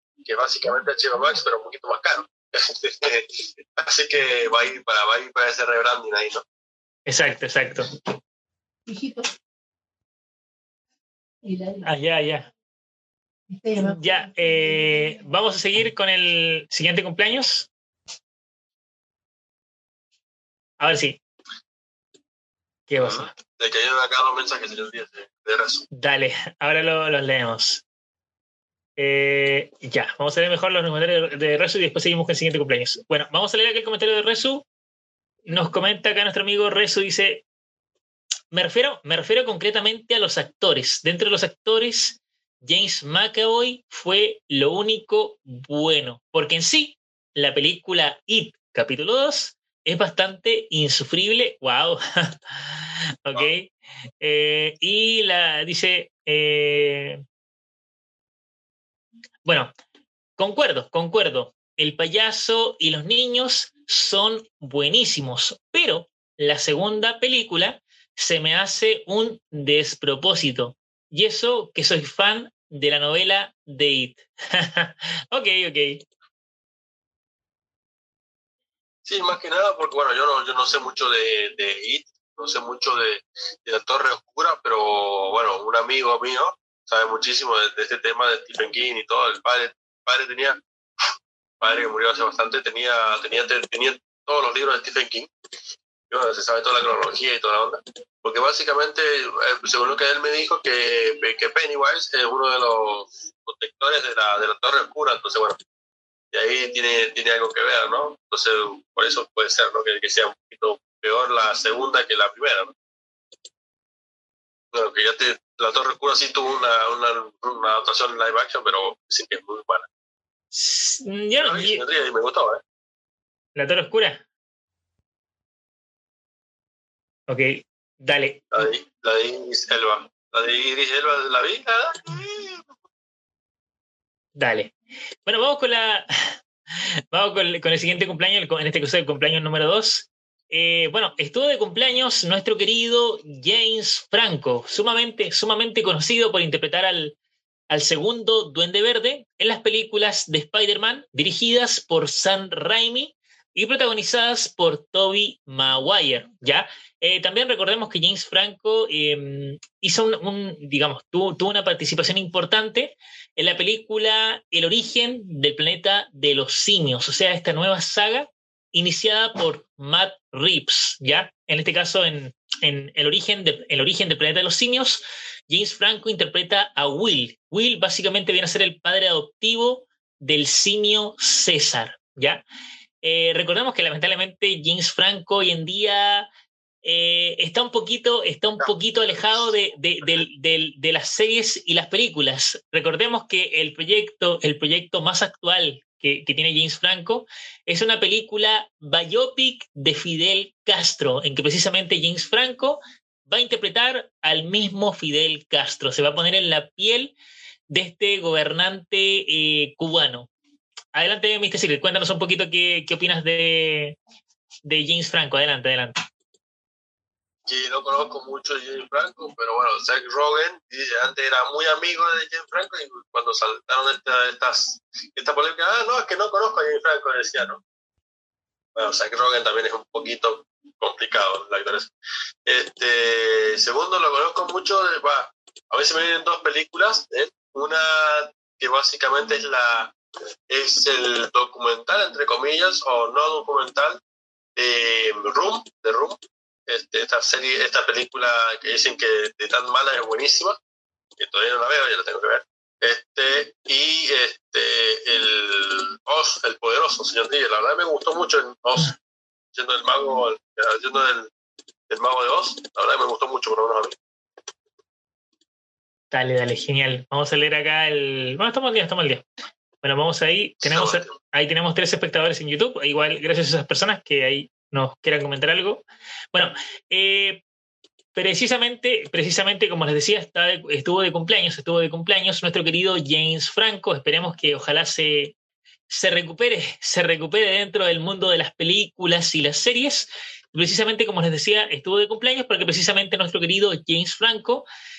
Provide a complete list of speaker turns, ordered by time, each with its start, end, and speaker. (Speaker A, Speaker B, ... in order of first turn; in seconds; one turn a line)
Speaker A: 0.2-6.4
Speaker B: 7.1-7.9
Speaker C: 8.9-9.3
Speaker C: 11.4-11.9
Speaker B: 11.8-12.5
Speaker C: 13.5-15.0
Speaker B: 13.8-17.7
Speaker B: 20.8-21.2
Speaker B: 22.9-23.3
Speaker A: 23.0-25.9
Speaker B: 25.9-27.8
Speaker B: 29.0-34.7
Speaker B: 35.5-37.4
Speaker B: 38.5-57.2
Speaker B: 59.4-59.7
Speaker B: 60.4-76.0
Speaker A: 79.1-90.6
Speaker A: 91.6-95.3
Speaker A: 96.1-105.6
Speaker A: 106.3-112.7
Speaker A: 114.7-119.9
Speaker B: 120.5-121.8
Speaker A: 121.4-122.6
Speaker B: 123.6-124.2
Speaker B: 127.3-128.7
Speaker A: 128.5-132.7
Speaker B: 134.4-134.7
Speaker B: 135.3-136.4
Speaker B: 137.1-147.2
Speaker B: 147.7-182.4
Speaker B: 183.0-186.3
Speaker B: 186.8-207.1
Speaker A: 188.6-189.4
Speaker B: 207.7-210.3
Speaker B: 210.9-214.0
Speaker B: 214.6-216.1
Speaker A: 217.5-227.6
Speaker A: 228.8-231.9
Speaker A: 232.5-239.9
Speaker A: 240.5-244.0
Speaker A: 244.6-250.6
Speaker A: 251.2-258.9
Speaker A: 259.5-261.3
Speaker A: 261.9-263.9
Speaker B: 266.1-269.3
Speaker B: 269.8-277.4
Speaker A: 270.6-271.1
Speaker B: 278.1-285.3
Speaker B: 285.9-294.7